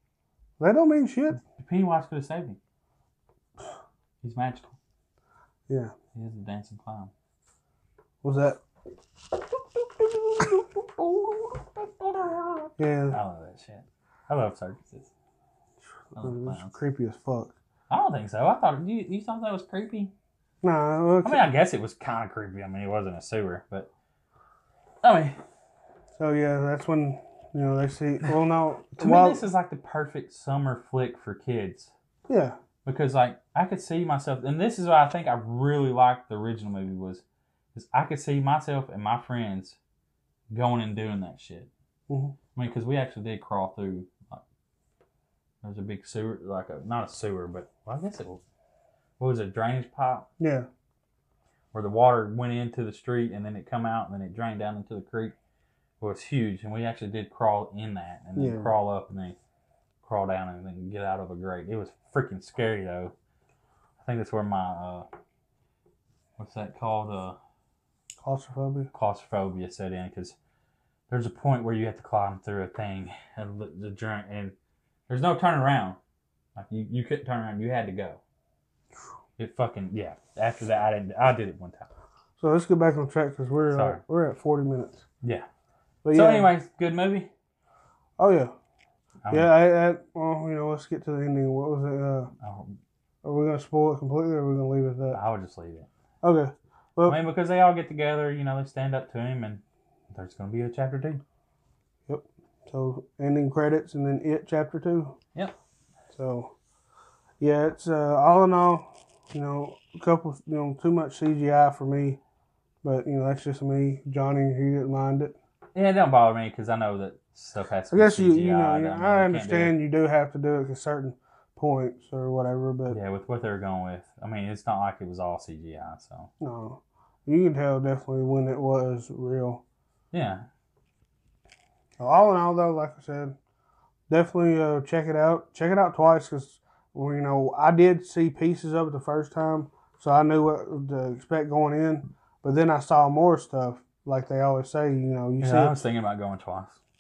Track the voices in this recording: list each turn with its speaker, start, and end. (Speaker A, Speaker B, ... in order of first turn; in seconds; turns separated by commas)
Speaker A: 0.6-1.4, Speaker B: 1.4-2.6, Speaker B: 4.2-4.8, Speaker B: 6.1-7.1, Speaker A: 8.2-8.6, Speaker B: 9.8-15.1, Speaker A: 12.8-13.2, Speaker B: 16.1-16.7, Speaker A: 16.1-17.5, Speaker B: 17.9-20.1, Speaker A: 20.6-21.4, Speaker B: 21.2-23.9, Speaker B: 25.0-25.4, Speaker A: 26.2-29.4, Speaker B: 29.0-31.9, Speaker A: 32.3-32.6, Speaker B: 32.8-39.8, Speaker B: 40.5-41.7, Speaker A: 42.1-42.4, Speaker B: 42.5-44.4, Speaker B: 45.6-48.4, Speaker B: 49.2-50.3, Speaker A: 50.4-50.7, Speaker B: 51.7-55.3, Speaker B: 56.0-59.4, Speaker A: 58.4-58.7, Speaker B: 60.0-63.1, Speaker B: 64.0-65.1, Speaker B: 66.4-67.4, Speaker A: 68.2-68.9, Speaker B: 68.9-70.4, Speaker B: 71.1-74.5, Speaker B: 75.1-76.0, Speaker B: 76.5-78.2, Speaker B: 79.4-81.9, Speaker A: 82.4-85.0, Speaker B: 83.7-84.0, Speaker B: 85.2-85.5, Speaker A: 86.0-86.5, Speaker B: 86.1-87.3, Speaker A: 88.2-88.5, Speaker B: 89.2-89.5, Speaker A: 89.3-92.3, Speaker B: 92.4-92.8, Speaker A: 93.2-95.2, Speaker B: 95.1-95.9, Speaker A: 96.2-97.2, Speaker B: 97.0-101.2, Speaker A: 102.1-105.2, Speaker A: 106.1-106.5, Speaker A: 107.4-112.2, Speaker A: 112.8-115.4, Speaker B: 115.7-119.7, Speaker A: 117.9-123.0, Speaker B: 122.9-126.3, Speaker A: 126.4-129.6, Speaker B: 130.1-130.5, Speaker A: 132.0-133.4, Speaker A: 134.1-145.8, Speaker B: 145.4-146.8